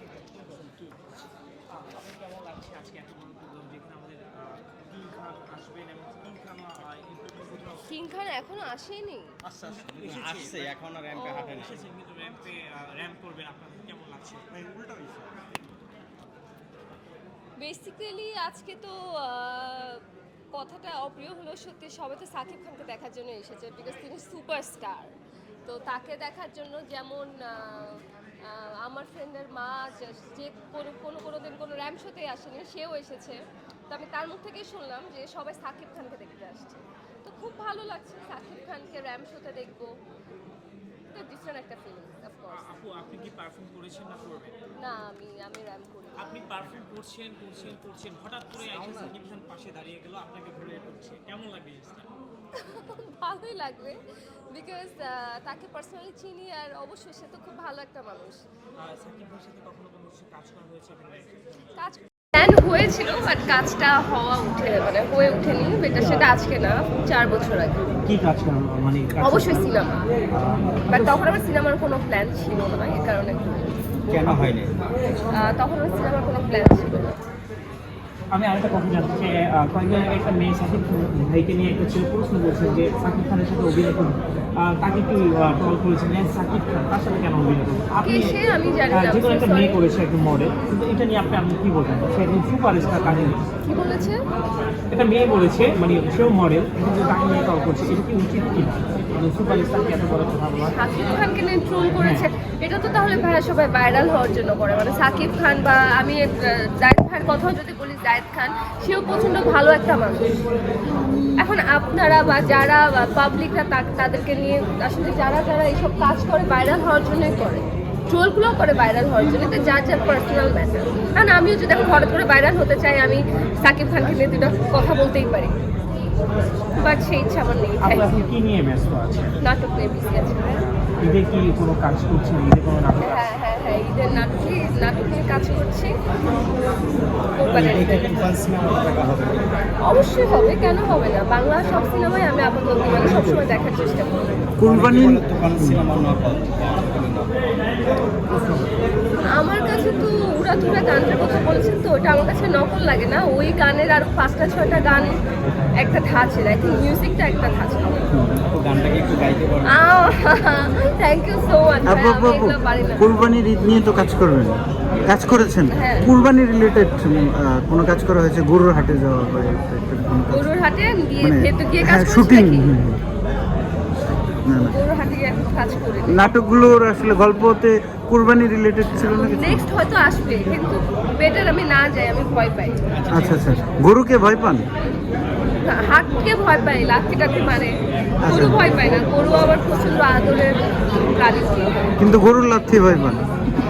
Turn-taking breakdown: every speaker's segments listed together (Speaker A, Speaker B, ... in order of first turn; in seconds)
Speaker A: 1.8-8.0, 9.5-10.8, 11.4-15.3, 42.5-44.5, 46.2-52.1, 58.8-61.7, 65.9-66.3, 68.0-69.7, 70.3-71.2, 78.3-88.4, 88.9-93.5, 94.9-100.8, 102.0-102.3, 127.8-129.3, 130.8-133.3, 148.3-148.7
Speaker B: 7.8-9.3, 11.1-11.6, 17.6-25.1, 25.6-33.4, 33.9-39.9, 41.1-42.6, 44.8-46.4, 52.5-54.0, 54.5-58.4, 61.8-67.8, 69.2-70.1, 70.9-73.7, 75.3-77.2, 88.0-89.8, 93.6-94.2, 100.7-110.3, 111.4-125.5, 126.8-128.3, 129.4-130.6, 133.0-135.9, 137.3-138.3, 139.8-144.3, 149.3-155.2, 155.8-158.0, 159.7-163.1, 165.7-166.1, 170.3-172.7, 174.7-176.3, 179.0-182.9, 185.6-191.9
Speaker C: 9.6-11.8, 74.1-74.8, 137.5-139.5, 143.1-143.4, 144.6-147.4, 158.4-159.8, 182.9-183.6
Speaker D: 144.6-145.8, 161.8-170.5, 171.2-173.0, 174.4-174.7, 176.1-179.7, 183.1-184.7, 188.2-188.7, 192.0-193.3